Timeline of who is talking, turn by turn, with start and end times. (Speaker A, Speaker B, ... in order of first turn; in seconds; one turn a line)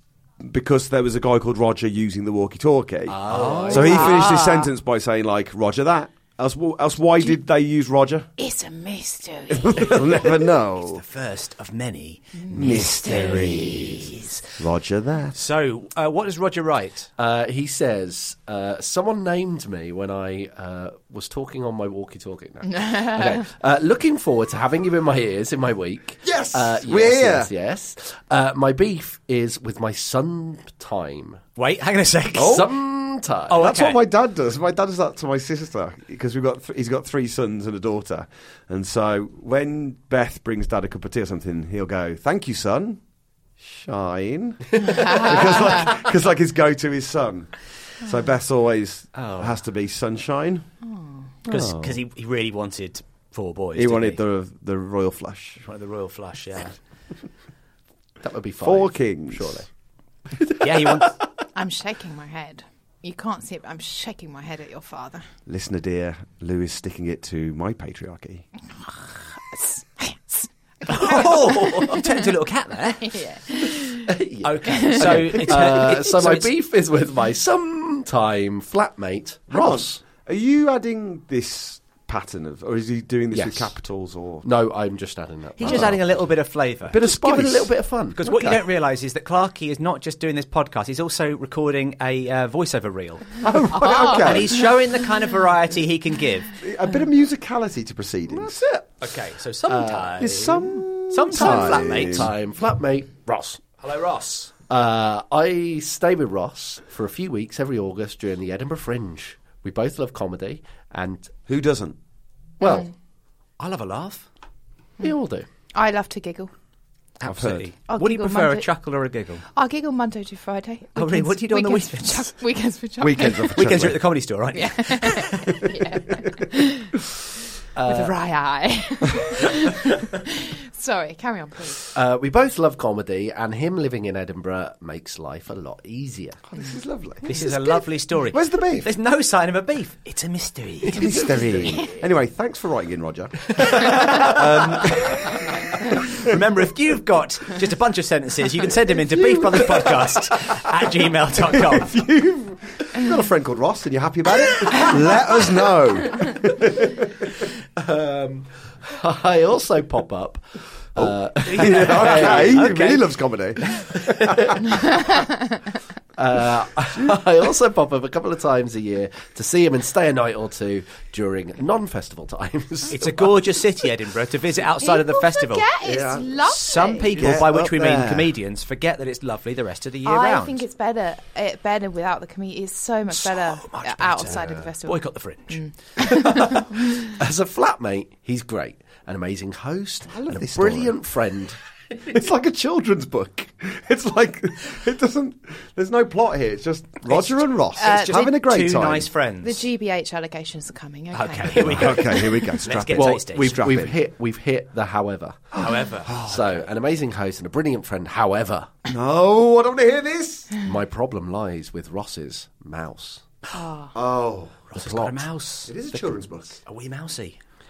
Speaker A: 0.4-8.3
Speaker B: 3.1-4.3
Speaker C: 3.2-4.2
Speaker D: 3.8-4.6
Speaker D: 8.4-10.0
Speaker A: 9.5-11.0
Speaker C: 10.8-14.4
Speaker D: 12.4-14.1
Speaker A: 12.5-14.1
Speaker A: 14.6-15.4
Speaker C: 15.3-17.1
Speaker B: 17.2-31.4
Speaker D: 22.7-23.4
Speaker A: 26.2-27.5
Speaker C: 31.6-32.7
Speaker A: 32.4-32.6
Speaker B: 32.4-33.6
Speaker C: 33.5-34.0
Speaker A: 33.6-43.0
Speaker A: 43.6-50.7
Speaker C: 49.1-49.6
Speaker A: 51.5-52.0
Speaker C: 51.5-54.2
Speaker A: 53.8-55.6
Speaker C: 55.6-56.8
Speaker B: 58.2-59.7
Speaker A: 58.6-59.6
Speaker B: 60.3-61.1
Speaker C: 60.6-61.2
Speaker D: 61.5-65.2
Speaker A: 65.5-68.5
Speaker D: 69.5-72.2
Speaker C: 70.9-73.2
Speaker D: 73.0-74.1
Speaker B: 74.1-80.0
Speaker C: 74.4-76.5
Speaker D: 74.7-75.0
Speaker A: 79.5-84.5
Speaker B: 83.3-83.7
Speaker B: 84.4-86.2
Speaker C: 85.6-87.0
Speaker A: 85.6-86.0
Speaker B: 86.9-88.3
Speaker A: 86.9-88.6
Speaker C: 88.2-96.5
Speaker A: 93.4-94.7
Speaker D: 93.7-94.2
Speaker A: 96.6-98.6
Speaker B: 98.3-99.0
Speaker C: 99.0-102.3
Speaker B: 99.7-100.3
Speaker A: 100.2-102.3
Speaker B: 101.3-103.6
Speaker C: 103.8-104.5
Speaker B: 104.7-111.3
Speaker A: 111.5-112.0
Speaker B: 112.6-112.9
Speaker C: 113.6-114.2
Speaker B: 115.0-115.5
Speaker D: 115.7-116.5
Speaker C: 117.2-119.5
Speaker A: 117.2-117.7
Speaker D: 117.9-118.7
Speaker D: 119.5-123.6
Speaker C: 121.0-122.3
Speaker A: 123.0-124.0
Speaker C: 123.5-125.8
Speaker D: 124.5-126.9
Speaker B: 127.7-128.1
Speaker D: 127.9-131.9
Speaker B: 131.9-136.4
Speaker A: 136.5-137.5
Speaker C: 137.2-141.3
Speaker A: 138.3-138.9
Speaker A: 140.9-146.4
Speaker D: 141.2-142.0
Speaker B: 141.3-141.8
Speaker C: 143.8-145.3
Speaker C: 146.2-152.0
Speaker A: 149.0-150.2
Speaker A: 151.4-157.1
Speaker B: 157.8-160.4
Speaker B: 160.9-162.8
Speaker A: 161.0-164.7
Speaker C: 161.4-163.1
Speaker B: 163.8-164.6
Speaker B: 166.2-173.3
Speaker C: 172.9-175.7
Speaker D: 174.8-177.1
Speaker A: 175.8-176.5
Speaker C: 176.5-180.6
Speaker A: 177.1-178.3
Speaker B: 177.2-177.7
Speaker D: 180.0-186.8
Speaker C: 183.1-185.7
Speaker B: 184.3-184.6
Speaker B: 187.0-191.6
Speaker A: 190.1-191.0
Speaker A: 192.0-199.1
Speaker C: 197.1-199.6
Speaker D: 197.8-198.3
Speaker D: 199.4-202.5
Speaker C: 201.1-204.0
Speaker A: 201.5-203.2
Speaker B: 202.9-205.6
Speaker C: 205.6-206.4
Speaker A: 206.1-206.4
Speaker B: 206.2-208.7
Speaker A: 208.9-210.5
Speaker B: 210.6-213.2
Speaker D: 213.5-213.9
Speaker A: 213.9-214.7
Speaker C: 214.7-217.4
Speaker B: 214.8-215.2
Speaker A: 215.7-216.5